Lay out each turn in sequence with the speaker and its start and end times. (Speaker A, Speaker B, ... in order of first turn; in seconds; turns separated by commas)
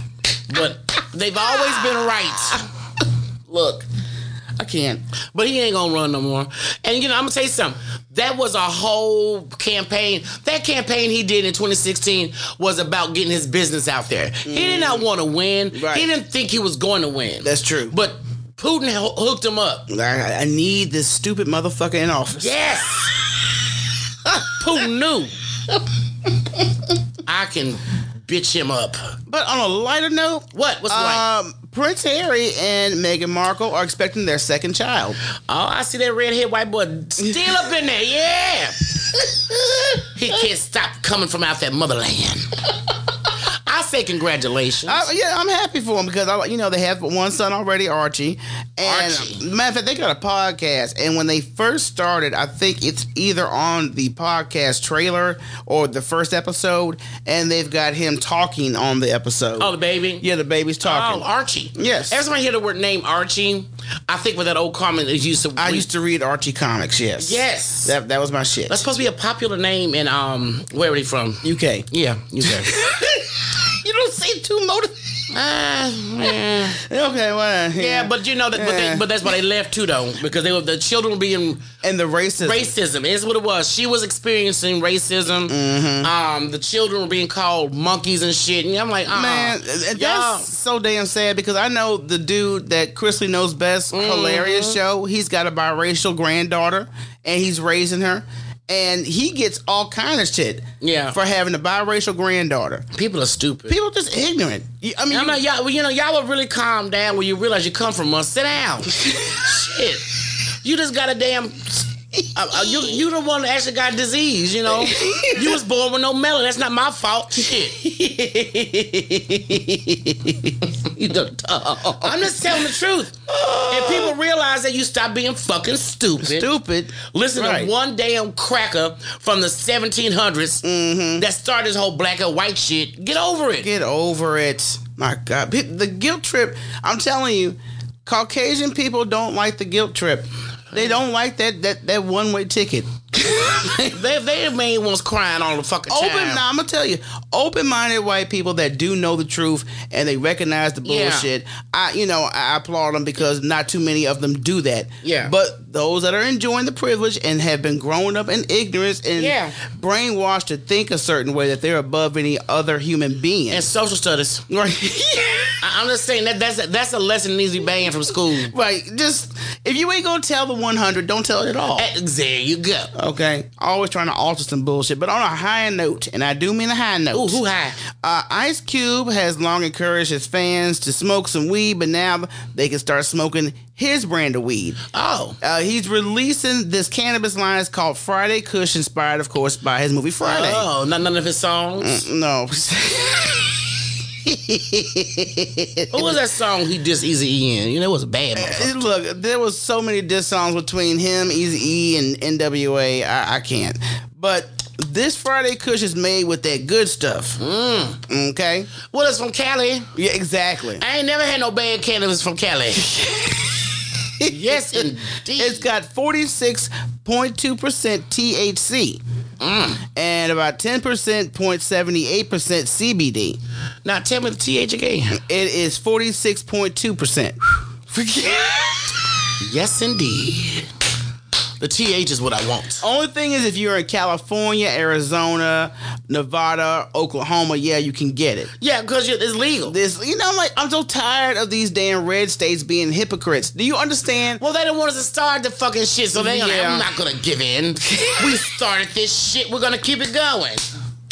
Speaker A: 0.5-2.7, Speaker B: 3.5-3.8, Speaker B: 4.6-5.0, Speaker A: 5.3-19.9, Speaker B: 14.5-15.1, Speaker B: 15.7-16.1, Speaker B: 17.4-17.9, Speaker B: 19.9-22.6, Speaker A: 22.4-23.3, Speaker A: 24.3-25.3, Speaker A: 27.2-29.0, Speaker B: 29.3-35.2, Speaker A: 30.5-31.2, Speaker A: 35.5-39.2, Speaker A: 40.0-42.5, Speaker A: 43.7-45.1, Speaker B: 44.9-62.2, Speaker A: 48.8-49.4, Speaker A: 59.6-60.2, Speaker A: 60.8-65.9, Speaker B: 65.6-68.8, Speaker A: 67.2-68.0, Speaker A: 68.7-72.7, Speaker B: 71.4-71.9, Speaker B: 72.4-75.2, Speaker A: 75.3-76.8, Speaker B: 76.8-79.1, Speaker A: 77.8-81.7, Speaker B: 81.8-82.7, Speaker A: 82.4-90.5, Speaker B: 85.5-86.1, Speaker B: 89.1-102.9, Speaker A: 93.9-94.8, Speaker A: 100.8-101.2, Speaker A: 102.9-103.8, Speaker B: 103.7-105.4, Speaker A: 105.1-119.6, Speaker B: 114.8-115.5, Speaker B: 119.4-122.6, Speaker A: 120.9-121.1, Speaker A: 122.0-126.5, Speaker B: 123.3-124.2, Speaker B: 126.2-127.7, Speaker A: 127.0-130.6, Speaker B: 130.6-131.2, Speaker A: 131.2-133.7, Speaker B: 133.6-144.0, Speaker A: 140.7-141.0, Speaker A: 143.7-146.4, Speaker B: 145.9-163.7, Speaker A: 150.8-151.3, Speaker A: 155.0-155.3, Speaker A: 159.2-159.6, Speaker A: 163.5-164.4, Speaker B: 164.5-165.6, Speaker A: 165.6-168.5, Speaker B: 168.4-171.9, Speaker A: 171.8-172.9, Speaker B: 172.9-177.4, Speaker A: 177.1-177.8, Speaker B: 178.0-184.8, Speaker A: 184.9-185.4, Speaker B: 185.4-190.7, Speaker A: 190.2-192.1, Speaker B: 191.8-196.2, Speaker A: 195.9-198.8, Speaker B: 198.3-207.4, Speaker A: 207.4-208.0, Speaker B: 208.1-208.7, Speaker A: 208.9-209.9, Speaker B: 209.9-210.8, Speaker A: 210.8-212.9, Speaker B: 212.8-214.8, Speaker A: 214.3-215.7, Speaker B: 215.4-219.0, Speaker A: 219.4-219.8, Speaker B: 219.9-223.4, Speaker A: 223.8-225.2, Speaker B: 225.1-229.0, Speaker A: 229.4-230.7, Speaker A: 231.6-232.8, Speaker B: 232.8-238.5, Speaker A: 238.6-239.8, Speaker B: 239.7-244.4, Speaker A: 244.4-250.7, Speaker B: 246.2-246.9, Speaker B: 248.0-248.2